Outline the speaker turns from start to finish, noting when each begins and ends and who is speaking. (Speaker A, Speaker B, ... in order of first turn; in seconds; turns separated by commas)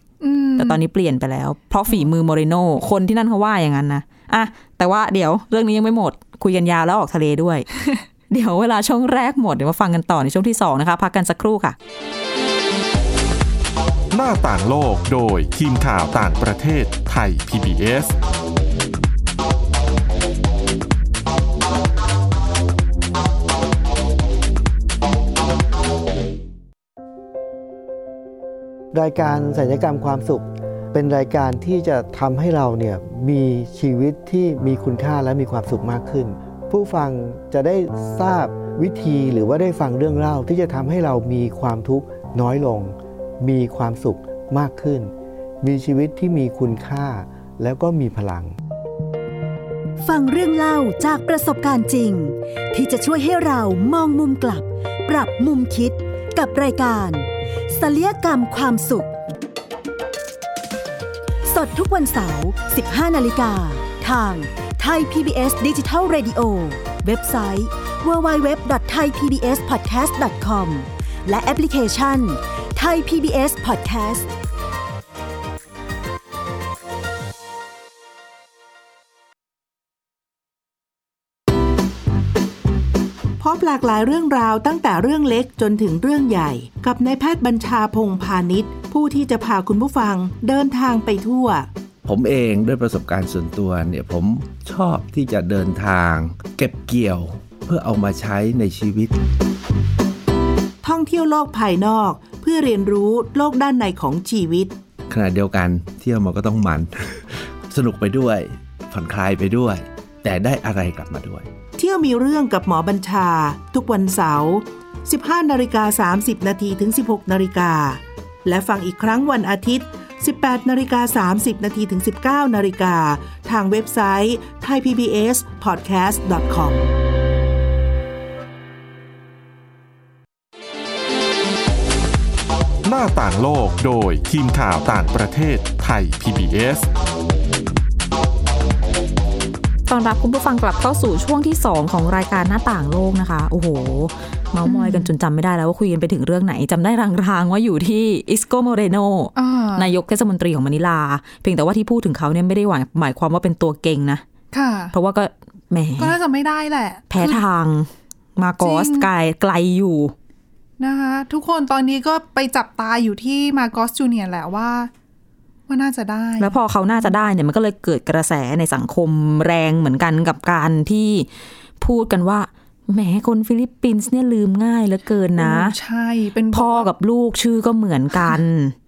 Speaker A: 0.2-0.8, Speaker B: 0.6-7.7, Speaker B: 8.3-11.8, Speaker C: 14.1-18.1, Speaker D: 28.9-48.5, Speaker E: 50.0-59.1, Speaker E: 61.5-74.3, Speaker F: 83.4-91.7, Speaker G: 92.0-99.2, Speaker F: 100.8-104.7, Speaker G: 105.1-111.5, Speaker F: 111.8-126.9, Speaker C: 132.8-136.9, Speaker B: 139.9-154.2, Speaker A: 144.7-145.1, Speaker A: 149.4-149.9, Speaker A: 154.5-154.9, Speaker B: 154.9-156.2, Speaker A: 156.0-157.4, Speaker B: 157.1-160.1, Speaker A: 158.6-159.1, Speaker A: 160.8-164.9, Speaker A: 165.7-167.1, Speaker B: 166.4-171.3, Speaker B: 171.8-175.8, Speaker A: 175.4-176.9, Speaker B: 176.5-178.8